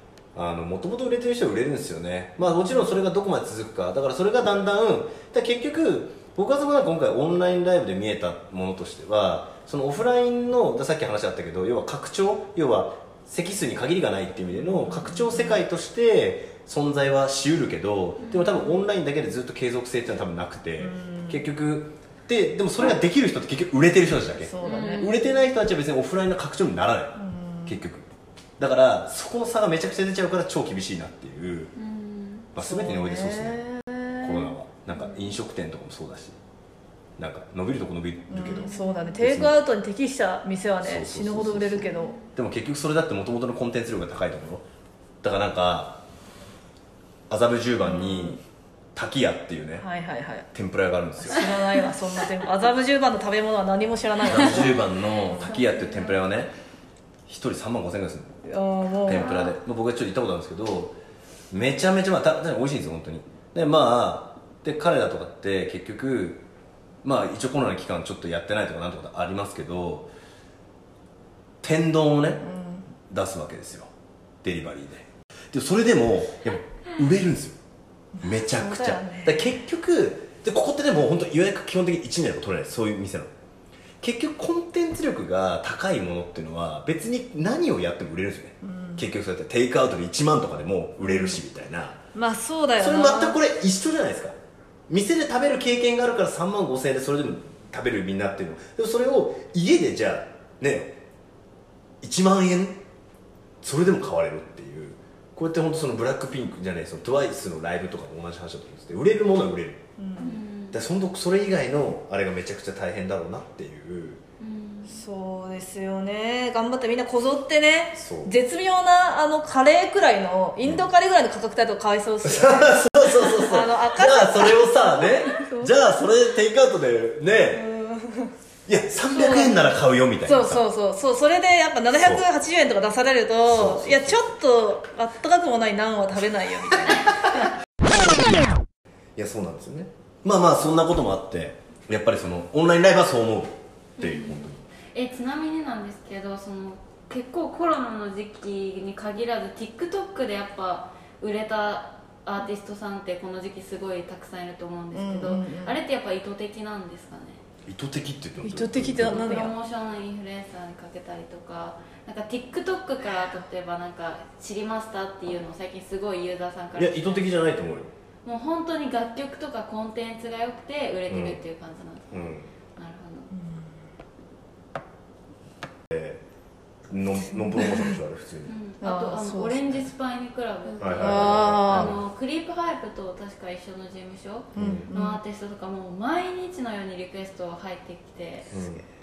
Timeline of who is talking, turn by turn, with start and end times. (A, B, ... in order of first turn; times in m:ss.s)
0:00.3-0:28.1 A
0:15.0-0:15.5 B
0:18.2-0:18.8 C
0:20.8-0:21.4 B
0:24.4-0:25.1 B
0:24.6-0:25.3 C
0:27.2-0:27.8 B
0:28.6-0:31.7 A
0:31.8-0:32.5 C
0:32.5-0:33.6 A
0:32.6-0:34.5 B
0:34.2-0:36.4 A
0:34.9-0:35.3 C
0:37.2-0:39.6 A
0:38.3-0:42.2 B
0:38.6-0:39.2 C
0:40.8-0:44.6 A
0:41.8-0:42.3 C
0:45.2-0:46.0 A
0:47.3-0:48.4 A
0:47.8-0:48.4 B
0:48.9-0:49.8 A
0:49.8-0:50.5 B
0:50.5-0:51.5 A
0:51.2-0:54.7 B
0:54.2-0:56.5 A
0:54.3-0:56.2 C
0:57.3-0:58.4 A
0:58.4-0:59.5 B
0:59.0-1:01.0 A
0:59.1-0:59.5 C
1:01.5-1:06.4 A
1:07.0-1:10.1 A
1:11.6-1:12.4 A
1:12.4-1:12.9 B
1:13.1-1:13.9 A
1:14.4-1:17.6 A
1:18.2-1:19.5 B
1:18.2-1:23.3 A
1:24.0-1:32.0 A
1:28.6-1:29.0 B
1:31.0-1:31.4 B
1:32.1-1:33.4 B
1:32.8-1:34.4 A
1:34.9-1:41.0 A
1:42.0-1:42.8 A
1:43.6-1:49.8 A
1:50.0-1:50.4 B
1:50.2-1:50.8 C
1:50.7-1:54.2 A
1:54.4-1:55.0 C
1:54.8-2:05.8 B
1:58.0-1:58.3 A
2:00.6-2:00.9 A
2:02.2-2:07.7 A
2:07.5-2:08.3 B
2:08.7-2:10.6 A
2:09.0-2:09.7 B
2:10.2-2:17.5 B
2:12.0-2:12.3 A
2:13.4-2:14.3 A
2:19.2-2:24.6 A
2:24.0-2:37.4 C
2:34.9-2:35.8 B
2:37.6-2:39.4 A
2:38.4-2:39.5 B
2:39.0-2:47.4 C
2:46.8-2:47.9 A
2:48.2-2:52.1 C
2:51.1-2:51.4 A
2:52.1-2:52.5 A
2:52.8-2:53.3 C
2:53.3-2:53.7 B
2:55.9-2:56.2 A
2:56.9-2:58.5 A
2:57.2-2:58.0 B
2:58.5-3:08.5 C
2:58.8-2:59.9 B
3:00.8-3:02.0 A
3:01.0-3:01.9 B
3:04.6-3:04.9 A
3:04.6-3:05.2 B
3:08.5-3:08.8 A